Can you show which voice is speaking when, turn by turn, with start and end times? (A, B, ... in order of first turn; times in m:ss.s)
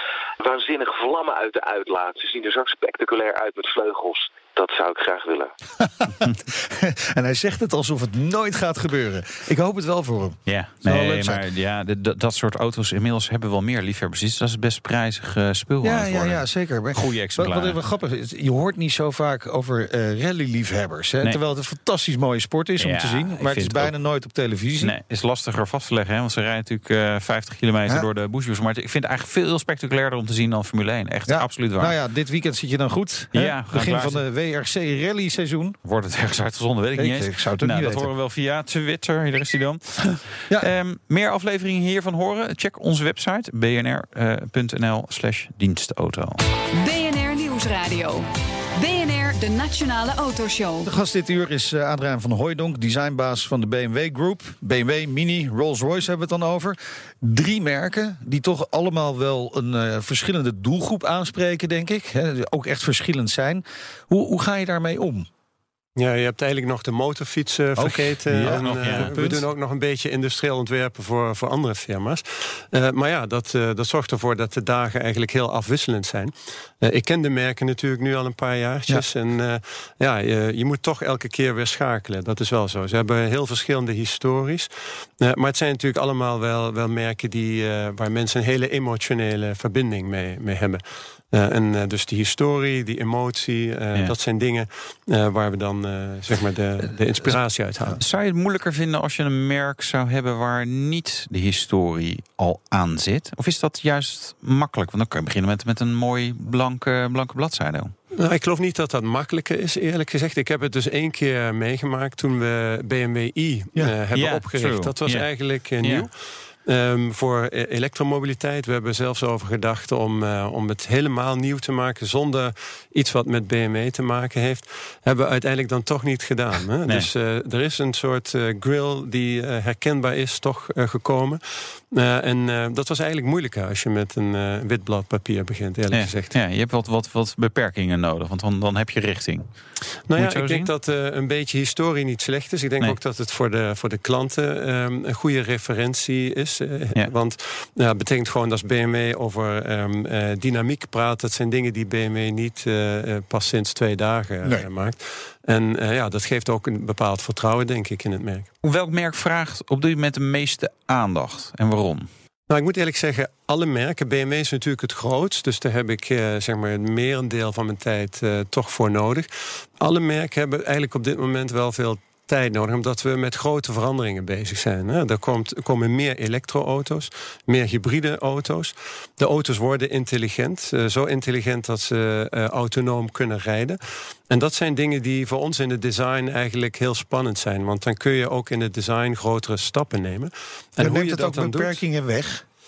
0:00.4-0:05.5 A
0:05.8-0:11.4 B
0:10.5-0:17.8 C
0:15.8-0:25.0 B
0:22.8-0:23.9 C
0:24.8-0:32.0 C
0:31.3-0:35.8 B
0:33.3-0:34.2 C
0:35.8-0:46.4 C
0:37.0-0:38.1 B
0:46.7-0:50.9 D
0:50.9-1:05.3 B
1:06.0-1:38.0 E
1:07.8-1:09.4 B
1:08.4-1:09.1 C
1:38.0-1:47.9 C
1:48.2-2:16.4 E
1:54.1-1:55.3 C
1:55.8-1:56.1 C
2:15.9-2:19.6 C
2:20.1-2:38.5 E
2:20.2-2:20.7 C
2:38.6-2:42.1 C
2:42.5-2:49.3 E
2:49.8-3:11.8 E
3:10.8-3:12.4 B